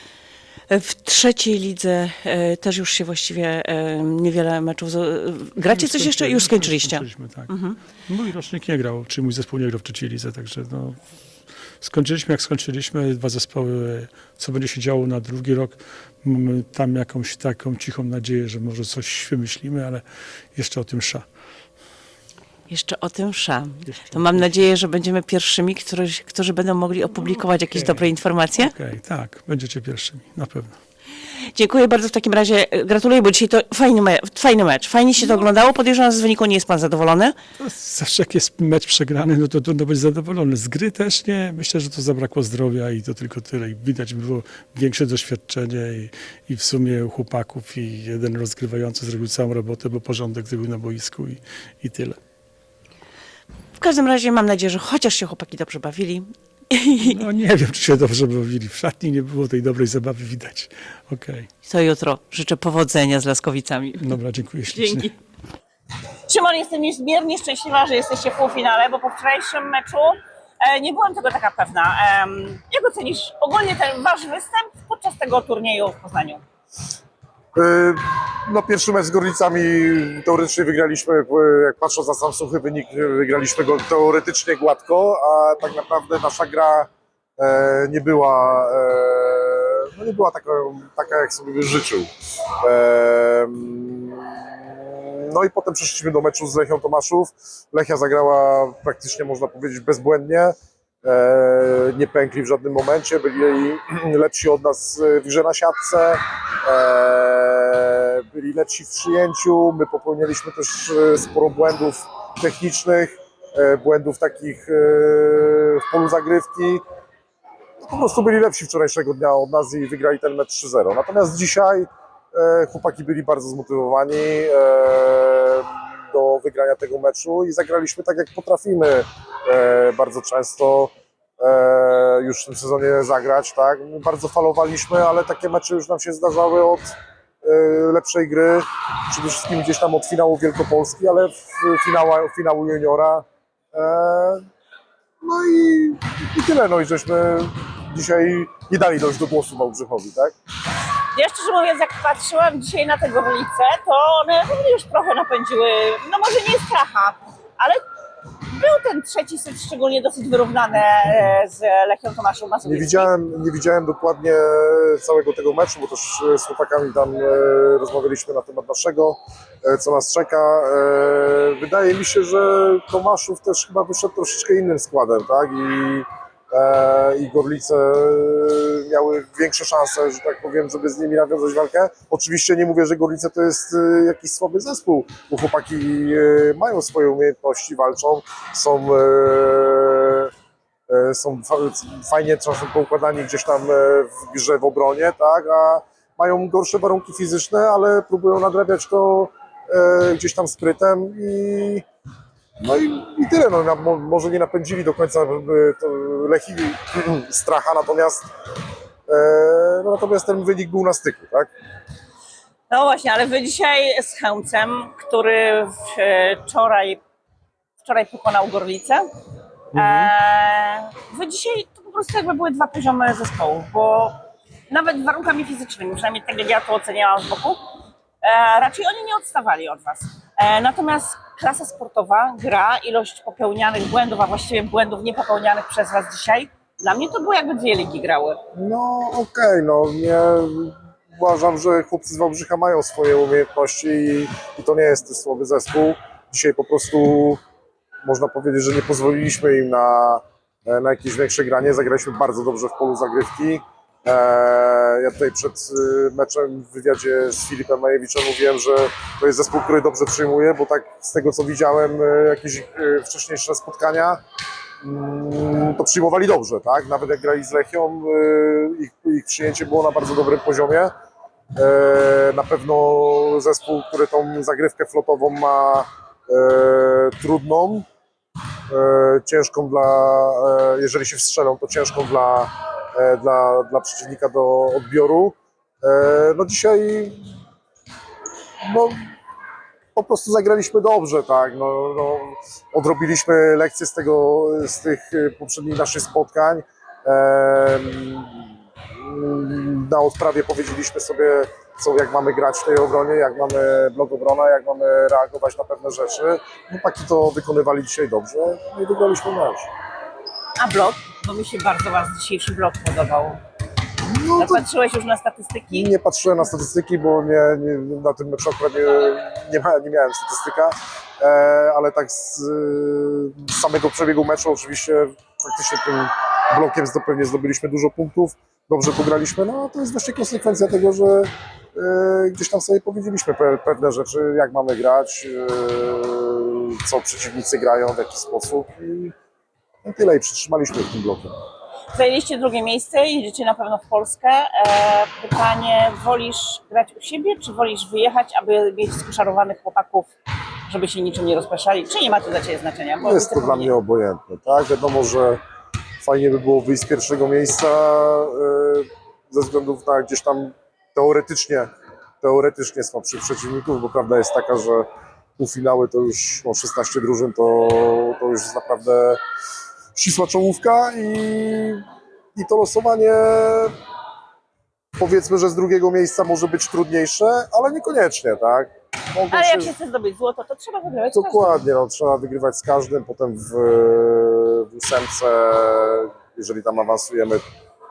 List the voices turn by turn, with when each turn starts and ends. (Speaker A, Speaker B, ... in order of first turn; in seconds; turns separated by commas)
Speaker A: 0.7-7.8, Speaker B: 5.6-7.5, Speaker B: 8.1-11.0, Speaker B: 11.8-20.0, Speaker B: 20.5-21.2, Speaker A: 22.7-28.7, Speaker B: 23.9-24.6, Speaker B: 27.7-28.1, Speaker B: 28.6-30.8, Speaker A: 31.5-37.4, Speaker B: 37.6-52.2, Speaker A: 53.8-57.2, Speaker B: 57.0-61.5, Speaker A: 61.6-64.1, Speaker B: 64.0-65.1, Speaker A: 64.7-65.1, Speaker A: 66.2-76.4, Speaker C: 77.5-116.8, Speaker C: 117.8-144.4, Speaker C: 145.2-150.3, Speaker A: 151.1-157.8, Speaker A: 158.5-163.1, Speaker C: 162.6-190.3, Speaker C: 190.9-201.8, Speaker C: 202.6-208.3, Speaker C: 209.1-211.5, Speaker A: 212.7-217.0, Speaker A: 217.8-219.0, Speaker A: 219.7-224.2, Speaker C: 219.8-220.1, Speaker A: 224.7-227.6, Speaker A: 228.2-238.4, Speaker C: 238.5-247.4, Speaker C: 248.0-264.2, Speaker C: 264.8-270.9, Speaker C: 271.5-277.9, Speaker C: 278.7-287.2, Speaker C: 288.6-289.1, Speaker C: 289.9-309.7, Speaker A: 310.6-313.4, Speaker C: 314.0-314.6, Speaker A: 314.4-315.9, Speaker C: 315.7-339.1, Speaker C: 339.8-341.3, Speaker A: 341.9-350.1, Speaker A: 350.6-353.7, Speaker C: 353.0-355.4, Speaker C: 356.0-361.7, Speaker C: 362.2-369.2, Speaker C: 369.9-371.8, Speaker C: 372.4-373.8, Speaker C: 375.0-379.7, Speaker A: 379.3-381.6, Speaker C: 381.1-387.4